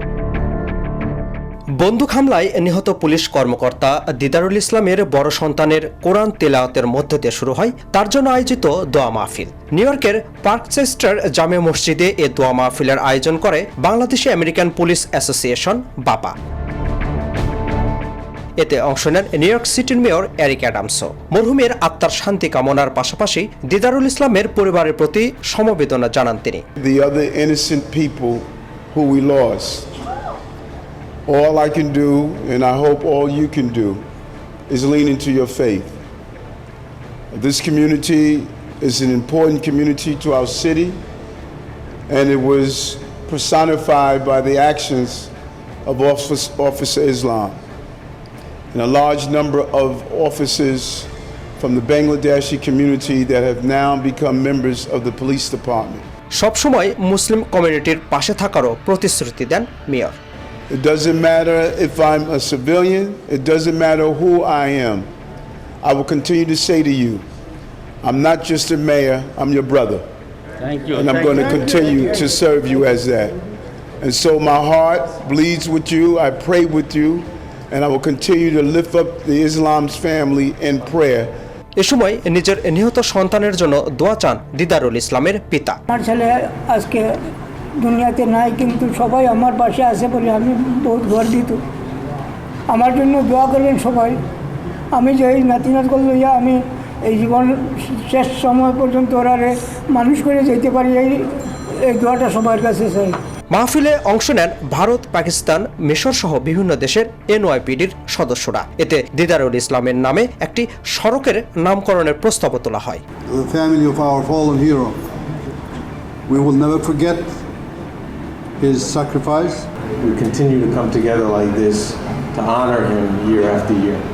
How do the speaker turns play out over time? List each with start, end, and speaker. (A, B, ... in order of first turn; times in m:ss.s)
0:01.8-0:16.3 A
0:18.6-0:26.6 A
0:26.8-0:29.9 B
0:31.2-0:34.0 B
0:34.7-0:36.0 B
0:37.3-0:41.0 B
0:42.1-0:45.3 B
0:45.8-0:47.6 B
0:48.7-0:56.0 B
0:56.3-1:00.2 A
1:00.7-1:05.1 B
1:05.8-1:07.2 B
1:08.0-1:10.0 B
1:10.9-1:13.4 B
1:14.0-1:21.3 B
1:21.8-1:25.8 A
1:25.9-1:27.1 C
1:27.8-1:31.6 C
1:32.7-1:34.2 C
1:34.9-1:43.2 C
1:43.5-1:53.0 A
1:53.3-1:55.0 D
1:56.3-1:57.4 D
1:58.6-1:59.6 D
2:00.0-2:04.0 E